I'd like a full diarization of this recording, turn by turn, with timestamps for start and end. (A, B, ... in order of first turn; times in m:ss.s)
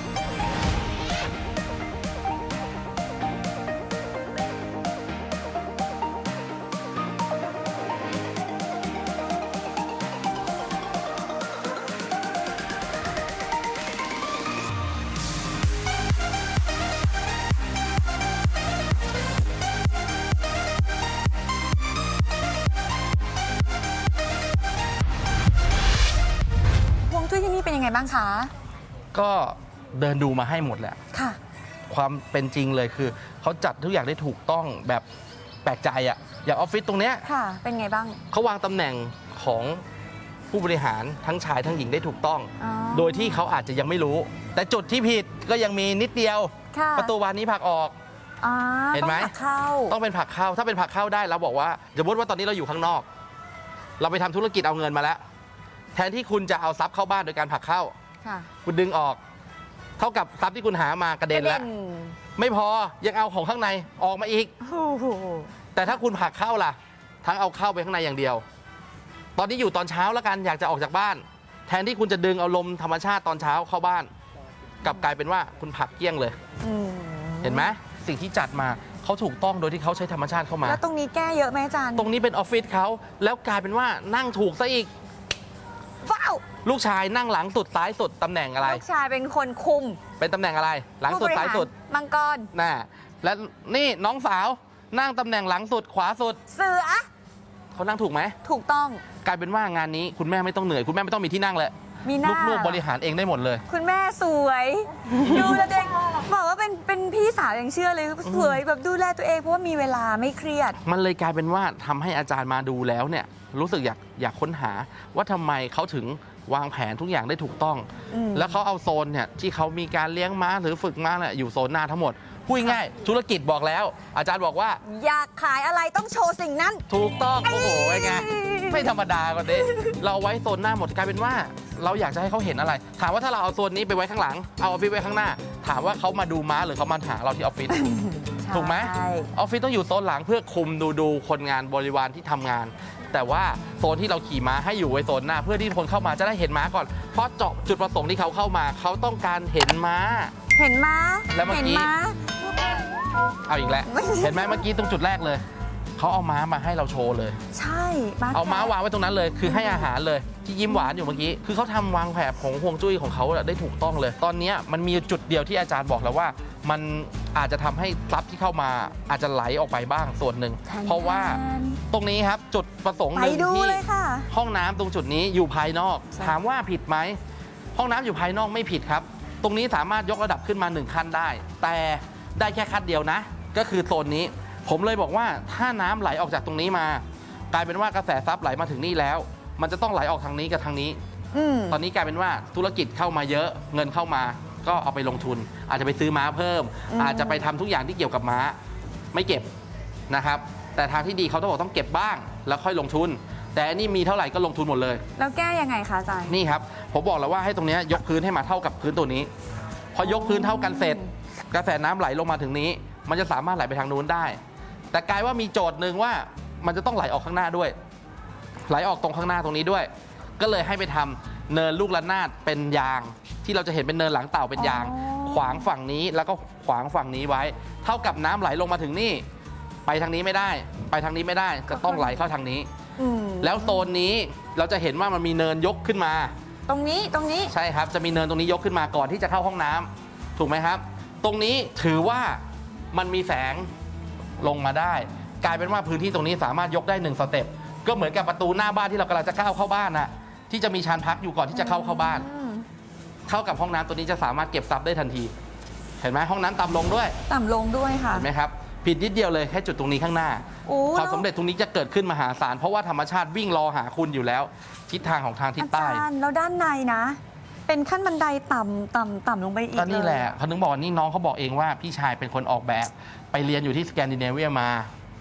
0:27.1-0:28.5 A
0:29.1-0:31.0 B
0:31.1-0:31.4 A
0:31.9-0:35.0 B
0:35.6-0:37.3 B
0:37.2-0:38.2 A
0:38.3-0:39.8 B
0:40.5-0:48.0 B
0:42.6-0:43.4 A
0:46.7-0:47.1 A
0:48.4-0:49.9 A
0:48.9-0:49.3 B
0:49.9-0:53.0 B
0:54.0-0:55.2 B
0:55.9-0:57.9 B
0:58.2-0:58.5 A
0:58.6-0:59.2 B
1:00.0-1:01.6 B
1:01.3-1:02.2 A
1:02.4-1:04.5 B
1:04.6-1:05.5 A
1:05.7-1:08.4 B
1:09.4-1:14.1 B
1:14.8-1:16.4 B
1:16.6-1:17.7 A
1:17.4-1:20.8 B
1:20.6-1:22.1 A
1:22.0-1:24.9 B
1:26.0-1:26.4 A
1:26.6-1:28.8 B
1:28.6-1:30.0 A
1:30.2-1:31.7 B
1:31.1-1:32.5 A
1:32.5-1:36.4 B
1:36.5-1:37.1 A
1:37.7-1:38.4 B
1:38.4-1:39.0 A
1:39.2-1:43.6 B
1:42.0-1:42.8 A
1:43.7-1:50.8 A
1:48.2-1:48.6 B
1:50.8-2:04.8 B
1:58.1-1:58.6 A
2:04.8-2:06.8 A
2:06.9-2:17.8 B
2:07.4-2:08.9 A
2:09.6-2:09.9 A
2:17.7-2:19.3 A
2:18.5-2:30.3 B
2:30.6-2:32.2 A
2:31.3-2:31.9 B
2:33.5-2:35.4 B
2:33.9-2:34.6 A
2:36.0-2:37.4 B
2:37.5-2:38.7 A
2:38.3-2:57.2 B
2:39.4-2:39.9 A
2:50.7-2:51.8 A
2:53.1-2:54.3 A
2:57.7-3:11.0 B
3:11.3-3:11.8 A
3:11.7-3:18.6 B
3:16.9-3:17.5 A
3:19.1-3:19.5 B
3:20.1-3:25.0 B
3:25.2-3:26.4 A
3:26.3-3:29.3 B
3:29.9-3:34.4 B
3:30.0-3:31.1 A
3:34.9-3:37.8 B
3:38.7-3:49.2 B
3:44.6-3:45.7 A
3:49.8-3:52.7 B
3:51.7-3:52.2 A
3:53.0-3:53.9 A
3:53.4-3:56.3 B
3:56.7-3:57.5 A
3:57.5-4:03.7 B
4:04.4-4:12.2 B
4:11.5-4:12.6 A
4:13.3-4:15.3 B
4:16.0-4:17.2 B
4:17.3-4:18.3 A
4:18.1-4:26.0 B
4:20.6-4:21.2 A
4:25.6-4:30.3 A
4:29.7-4:34.9 B